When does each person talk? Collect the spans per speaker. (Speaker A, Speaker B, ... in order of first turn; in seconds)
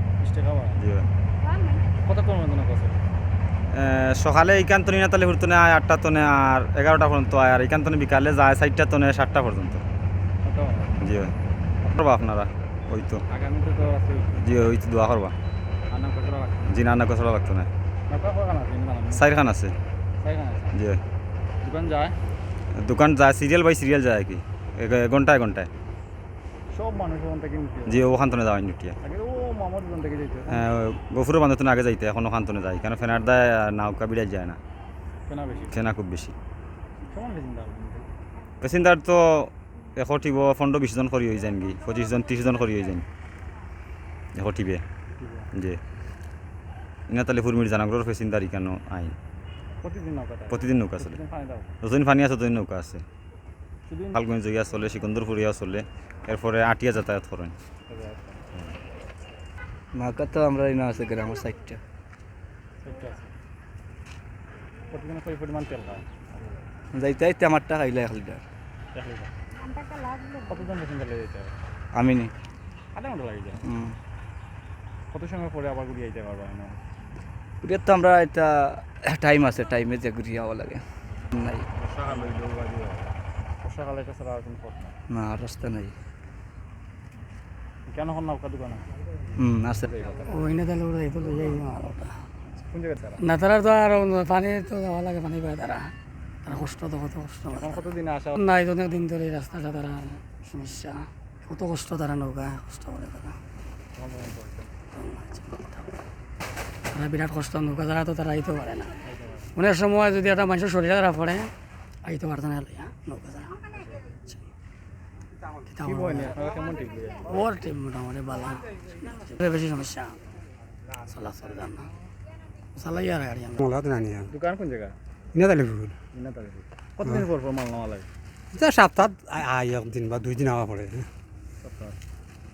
Speaker A: 0.2-0.8, 2.0-3.0, 10.4-11.0, 13.3-14.4, 15.9-16.8, 18.1-19.3, 20.2-20.8, 21.6-22.2, 26.7-28.2, 29.0-30.6, 35.3-35.9, 37.1-38.1, 45.2-45.5, 49.8-51.8, 53.9-54.2, 57.9-58.4, 62.8-63.3, 64.9-66.6, 68.9-69.3, 70.5-71.6, 72.9-73.6, 75.1-76.8, 81.8-85.0, 87.9-88.9, 89.8-90.6, 92.6-93.3, 97.5-98.4, 104.0-104.7, 109.0-109.5, 115.8-117.5, 124.3-125.0, 126.1-128.1, 131.6-132.0
Speaker B: 0.8-1.1, 3.7-9.8, 11.0-11.3, 11.9-13.2, 14.4-15.3, 16.7-17.7, 19.1-19.8, 20.7-21.0, 22.7-25.7, 27.9-29.0, 30.5-34.6, 35.7-36.4, 38.6-43.1, 44.4-44.8, 45.5-45.8, 47.1-49.1, 50.5-51.2, 51.8-53.0, 54.1-57.6
Speaker C: 59.9-61.8, 66.9-68.4, 71.9-72.3, 73.7-74.0, 77.6-81.7, 85.1-86.0, 89.4-89.9
Speaker D: 90.3-92.2, 93.2-97.8, 98.4-103.4, 105.0-105.9, 106.9-109.0, 109.5-113.7, 115.7-116.4, 117.3-120.2, 121.0-121.9, 122.8-123.6
Speaker E: 123.6-124.3, 125.3-126.0, 128.5-131.1